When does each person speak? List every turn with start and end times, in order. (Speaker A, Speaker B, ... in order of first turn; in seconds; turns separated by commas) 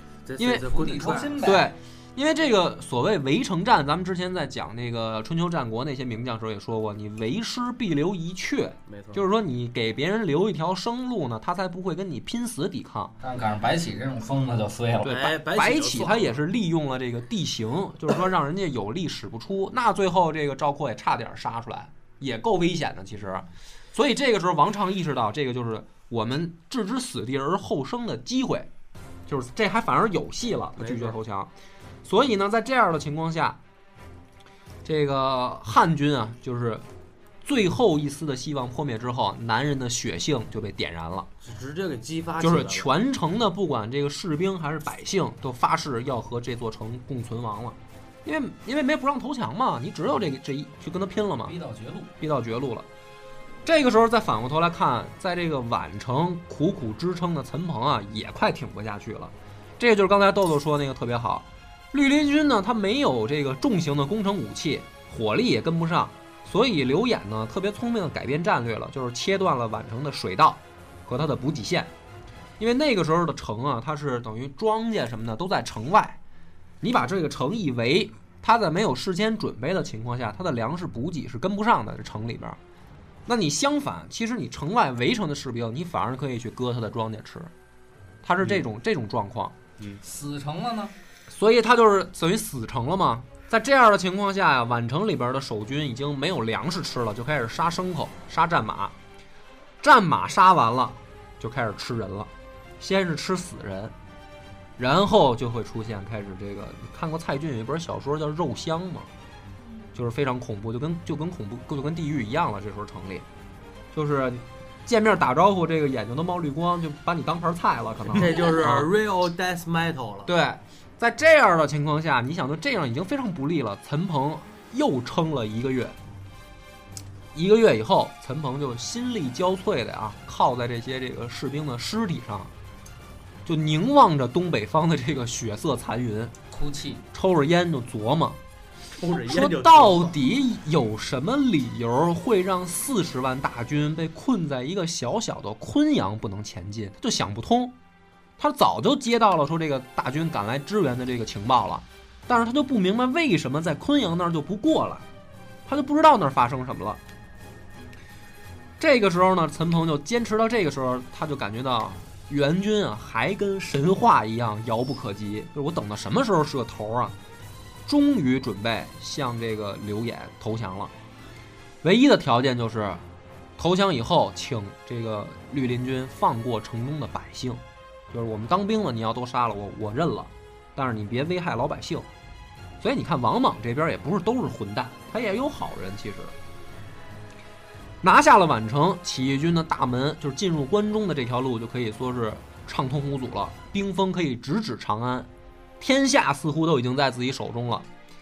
Speaker A: 0.3-1.6, Speaker B: 0.4-0.8, Speaker C: 0.7-1.7, Speaker B: 1.4-13.2, Speaker A: 8.9-9.2, Speaker C: 13.2-15.2, Speaker A: 15.0-16.4, Speaker B: 15.1-28.7, Speaker B: 29.3-31.5, Speaker A: 30.8-31.2, Speaker B: 32.0-33.6, Speaker B: 34.9-36.9, Speaker B: 37.4-41.3, Speaker A: 41.4-42.9, Speaker B: 42.4-51.5, Speaker C: 51.5-52.1, Speaker B: 52.2-52.9, Speaker B: 53.7-71.9, Speaker B: 72.6-76.2, Speaker B: 76.8-82.6, Speaker B: 83.3-87.5, Speaker B: 88.2-89.6, Speaker C: 90.0-90.9, Speaker B: 91.3-99.0, Speaker B: 99.8-103.9, Speaker B: 104.8-109.1, Speaker B: 110.0-113.3, Speaker B: 113.9-118.9, Speaker A: 118.1-120.3, Speaker B: 120.3-126.0, Speaker B: 127.3-132.5, Speaker B: 133.5-136.3, Speaker C: 136.5-137.0, Speaker B: 137.1-138.4, Speaker A: 139.0-140.2, Speaker B: 139.2-147.7, Speaker B: 148.4-155.1, Speaker B: 155.7-157.0, Speaker B: 158.8-167.2, Speaker B: 167.9-170.9, Speaker B: 171.8-173.0, Speaker B: 173.6-182.1, Speaker B: 182.8-186.3, Speaker B: 188.0-195.3, Speaker B: 195.8-197.9